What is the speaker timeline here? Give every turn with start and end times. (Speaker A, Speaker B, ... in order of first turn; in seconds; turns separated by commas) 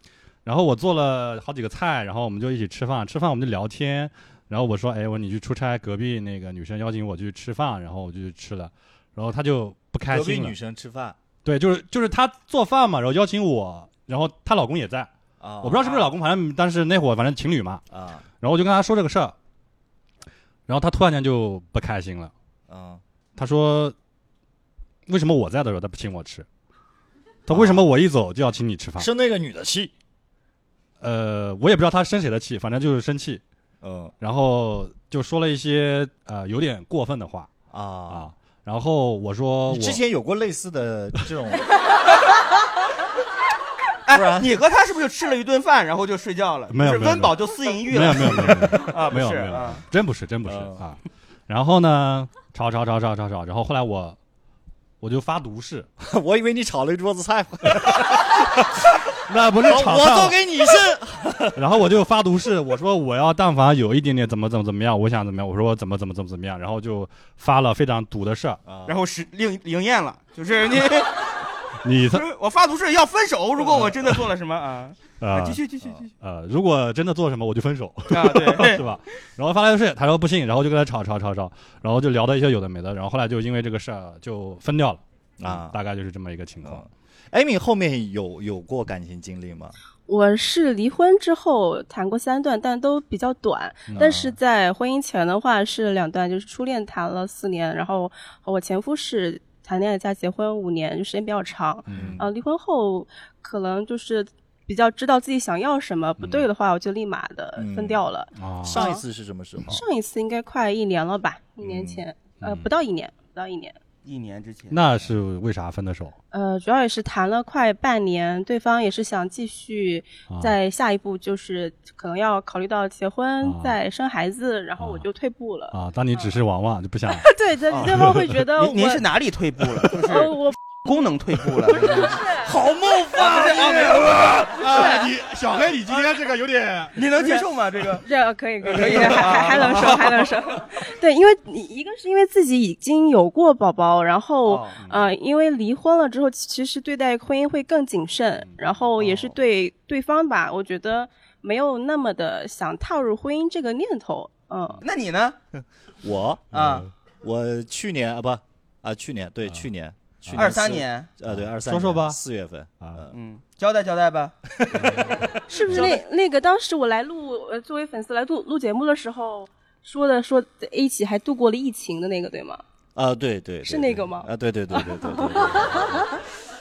Speaker A: 0.4-10.5, Speaker B: 10.1-11.2, Speaker A: 11.4-15.1, Speaker B: 15.4-16.1, Speaker A: 15.6-17.8, Speaker B: 17.9-18.2, Speaker A: 18.4-19.3, Speaker A: 20.7-22.3, Speaker B: 22.7-23.0, Speaker A: 23.4-23.9, Speaker A: 25.1-26.4, Speaker A: 27.5-29.1, Speaker B: 27.5-27.9, Speaker B: 29.0-29.9, Speaker A: 31.0-33.4, Speaker B: 33.8-34.1, Speaker A: 34.2-37.5, Speaker B: 37.7-38.3, Speaker A: 38.1-40.0, Speaker B: 39.7-41.7, Speaker C: 44.0-49.8, Speaker B: 44.1-44.6, Speaker A: 46.7-47.4, Speaker A: 47.9-54.2, Speaker B: 50.5-50.8, Speaker A: 55.0-55.9, Speaker B: 56.0-58.8, Speaker A: 59.1-60.4, Speaker B: 59.6-61.6, Speaker A: 61.5-68.6, Speaker B: 68.6-69.0, Speaker C: 68.9-71.3, Speaker A: 71.8-72.2, Speaker C: 72.1-76.1, Speaker A: 73.7-74.2, Speaker A: 75.2-75.6, Speaker A: 76.2-86.8, Speaker C: 78.1-78.8, Speaker B: 85.4-85.8, Speaker B: 86.6-89.7, Speaker D: 90.1-109.0, Speaker B: 93.9-94.3, Speaker A: 101.9-102.2, Speaker B: 101.9-102.3, Speaker B: 107.5-108.0, Speaker A: 108.4-108.8, Speaker B: 108.6-109.8, Speaker D: 109.7-113.8, Speaker B: 111.6-112.5, Speaker A: 112.4-112.7, Speaker C: 114.0-114.8, Speaker A: 114.7-116.1, Speaker D: 116.3-125.7, Speaker A: 120.3-120.5, Speaker A: 123.4-123.8, Speaker A: 124.8-125.0, Speaker A: 125.7-127.3, Speaker D: 127.2-129.0, Speaker C: 127.7-132.2, Speaker D: 130.0-130.6, Speaker D: 131.7-132.5, Speaker B: 132.4-134.7, Speaker C: 133.2-135.1, Speaker A: 133.4-137.4, Speaker C: 136.9-138.1, Speaker D: 138.0-154.8, Speaker C: 138.6-140.3, Speaker C: 144.4-144.8, Speaker C: 154.8-155.4, Speaker B: 155.6-163.2, Speaker C: 156.5-156.9, Speaker A: 160.2-160.6, Speaker C: 160.3-161.1, Speaker A: 161.3-162.2, Speaker C: 163.1-164.4, Speaker B: 164.6-165.2, Speaker A: 164.8-165.9, Speaker D: 165.5-172.6, Speaker C: 165.6-166.0, Speaker B: 172.9-176.1, Speaker D: 173.6-174.3, Speaker D: 175.2-175.9